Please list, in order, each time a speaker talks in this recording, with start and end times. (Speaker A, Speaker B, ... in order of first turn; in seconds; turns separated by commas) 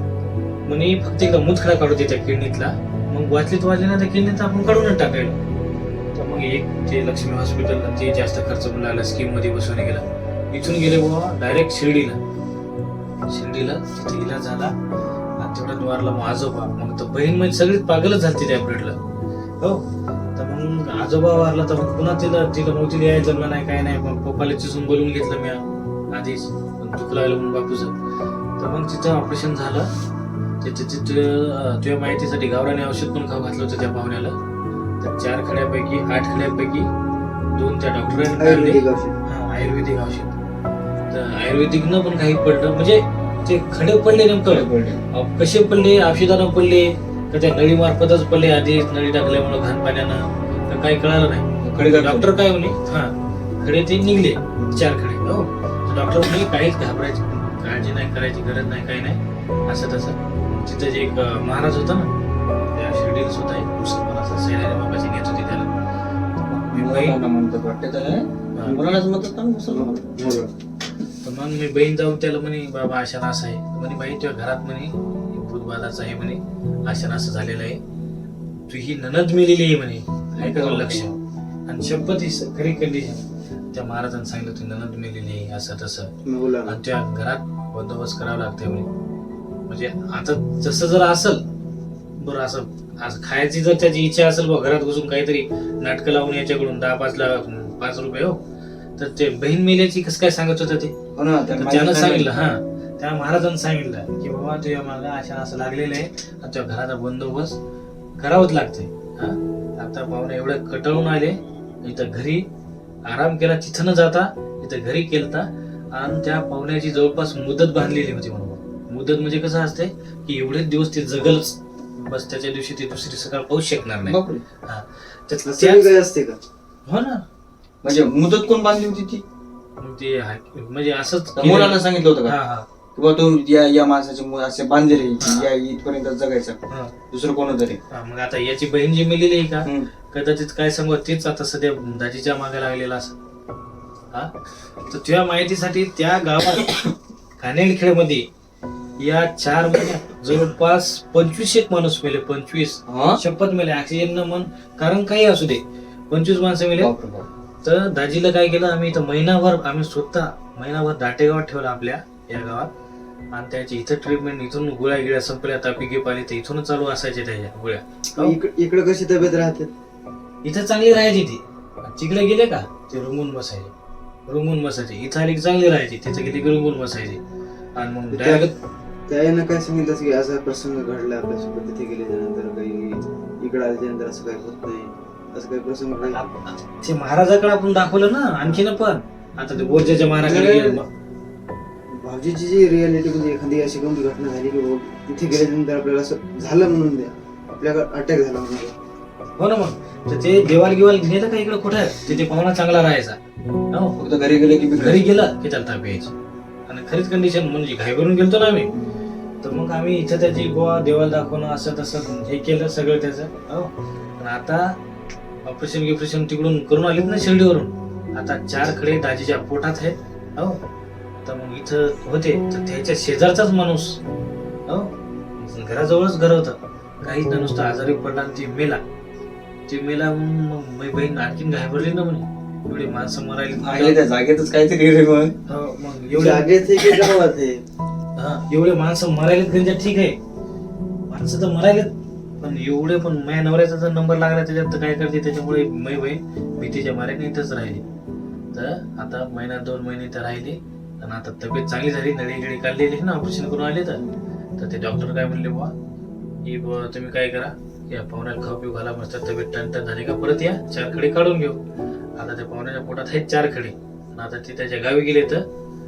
Speaker A: 0.7-5.4, Speaker A: 6.1-12.2, Speaker A: 13.3-14.7, Speaker A: 15.4-19.0, Speaker A: 20.4-27.9, Speaker A: 28.6-29.9, Speaker A: 30.6-34.4, Speaker A: 35.0-36.9, Speaker A: 37.5-40.3, Speaker B: 38.4-39.2, Speaker A: 41.1-62.1, Speaker C: 44.5-45.0, Speaker C: 51.6-52.4, Speaker A: 62.7-65.7, Speaker C: 66.5-70.4, Speaker A: 66.7-67.2, Speaker A: 68.5-68.8, Speaker B: 69.7-70.5, Speaker A: 71.2-77.8, Speaker A: 78.7-81.1, Speaker C: 80.4-81.2, Speaker A: 81.7-86.1, Speaker B: 86.2-86.8, Speaker A: 86.7-88.9, Speaker A: 89.7-91.4, Speaker A: 92.2-98.4, Speaker A: 99.0-100.9, Speaker C: 101.2-102.3, Speaker A: 101.6-107.5, Speaker A: 108.2-112.4, Speaker A: 113.0-125.9, Speaker C: 124.0-124.4, Speaker B: 125.5-126.4, Speaker A: 126.9-127.2, Speaker C: 127.8-129.2, Speaker A: 129.8-132.7, Speaker C: 131.4-132.4, Speaker C: 132.9-137.8, Speaker A: 135.2-135.5, Speaker A: 137.9-143.1, Speaker C: 139.6-139.9, Speaker A: 144.9-146.8, Speaker A: 147.4-148.3, Speaker A: 149.0-156.9, Speaker C: 152.9-153.2, Speaker C: 156.8-157.3, Speaker A: 157.6-162.7, Speaker A: 163.3-168.3, Speaker B: 168.2-169.7, Speaker A: 170.4-173.7, Speaker A: 174.3-177.2, Speaker A: 177.8-178.5, Speaker B: 178.1-178.5, Speaker B: 179.1-186.2, Speaker A: 186.1-190.9, Speaker B: 190.2-190.8, Speaker B: 191.9-198.8, Speaker A: 199.4-203.2, Speaker A: 203.7-204.0, Speaker C: 204.0-205.1, Speaker A: 204.8-206.1, Speaker A: 206.7-208.7, Speaker A: 209.4-214.8, Speaker A: 215.4-220.6, Speaker A: 221.2-224.0, Speaker A: 224.7-228.8, Speaker A: 229.7-234.0, Speaker C: 233.6-235.4, Speaker A: 235.5-236.4, Speaker B: 236.1-237.6, Speaker A: 238.2-240.2, Speaker A: 241.1-247.8, Speaker A: 248.5-254.0, Speaker A: 254.6-255.7, Speaker A: 256.4-261.6, Speaker A: 262.1-265.4